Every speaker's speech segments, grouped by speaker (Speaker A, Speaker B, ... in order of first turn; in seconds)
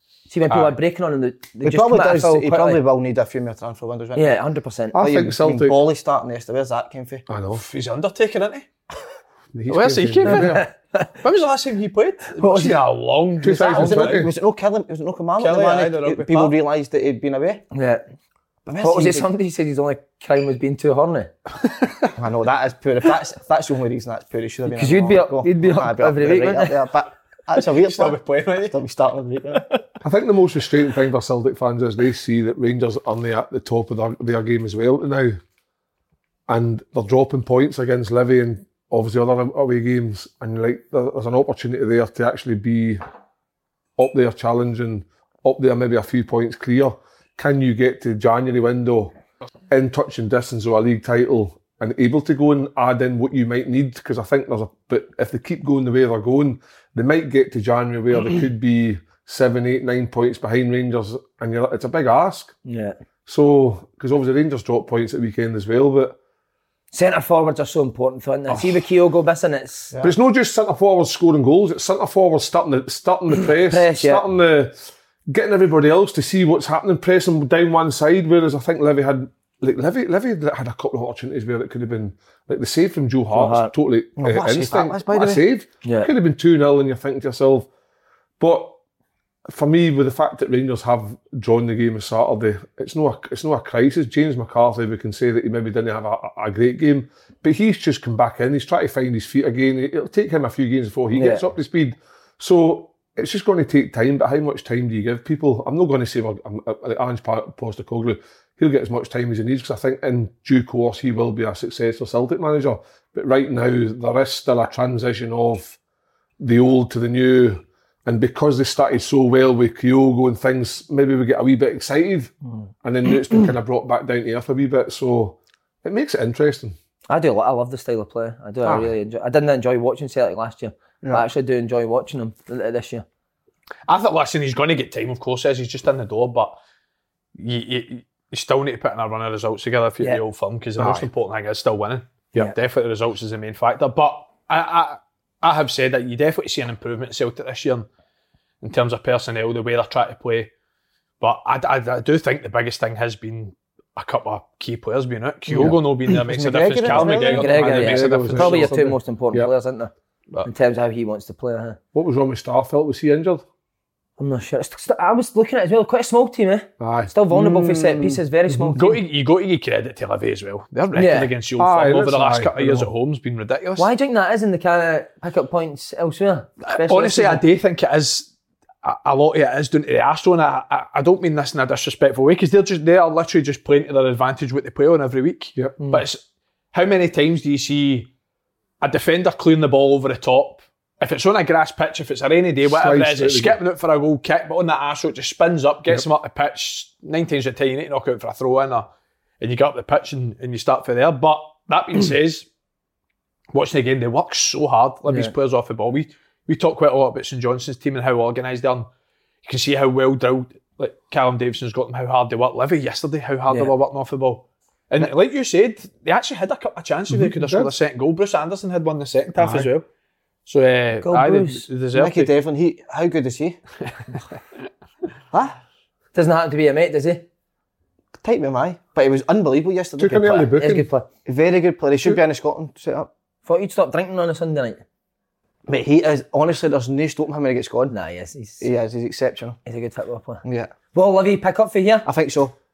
Speaker A: 0.3-2.8, 4.2-5.0, 10.3-11.1, 12.4-12.8, 17.7-18.0, 18.8-21.3, 24.7-26.8, 62.7-63.0, 66.9-69.9, 73.5-74.2, 83.3-83.7, 85.8-86.1, 101.1-101.4, 127.1-133.1, 156.9-159.9, 160.4-161.8, 164.2-169.0, 170.9-171.3, 173.8-177.4, 205.1-205.3, 221.0-221.7, 226.1-227.3, 230.6-231.1, 233.4-234.8, 237.9-238.7, 239.7-240.4, 240.9-242.1
Speaker B: 1.6-4.4, 4.9-7.3, 13.6-17.6, 18.7-19.3, 22.1-29.8, 84.2-85.4, 156.1-157.6, 221.9-223.6, 225.3-225.6, 228.2-230.5, 231.3-233.1, 235.7-237.9, 238.6-239.6, 240.4-240.7, 242.1-242.5
Speaker C: 4.9-5.8, 7.3-7.7, 9.5-10.7, 13.4-14.3, 30.0-35.4, 36.5-43.0, 44.0-49.1, 49.7-62.5, 63.3-66.2, 68.5-68.8, 70.0-74.8, 75.3-87.7, 88.4-88.8, 89.5-115.8, 116.4-126.8, 128.6-128.9, 140.8-141.1, 155.5-155.8, 157.6-159.5, 161.9-163.4, 166.8-168.8, 171.6-172.9, 192.6-193.6, 217.1-217.7, 219.4-219.7, 230.0-230.9
Speaker D: 7.5-8.7, 9.7-10.7, 11.2-14.3, 15.4-16.6, 27.6-28.8, 133.9-136.6, 137.3-147.9, 148.6-150.5, 151.2-158.7, 168.8-173.9, 176.7-178.3, 178.8-186.2, 186.7-188.1, 188.8-198.9, 199.4-202.5, 203.5-208.9, 209.4-219.9, 220.5-222.3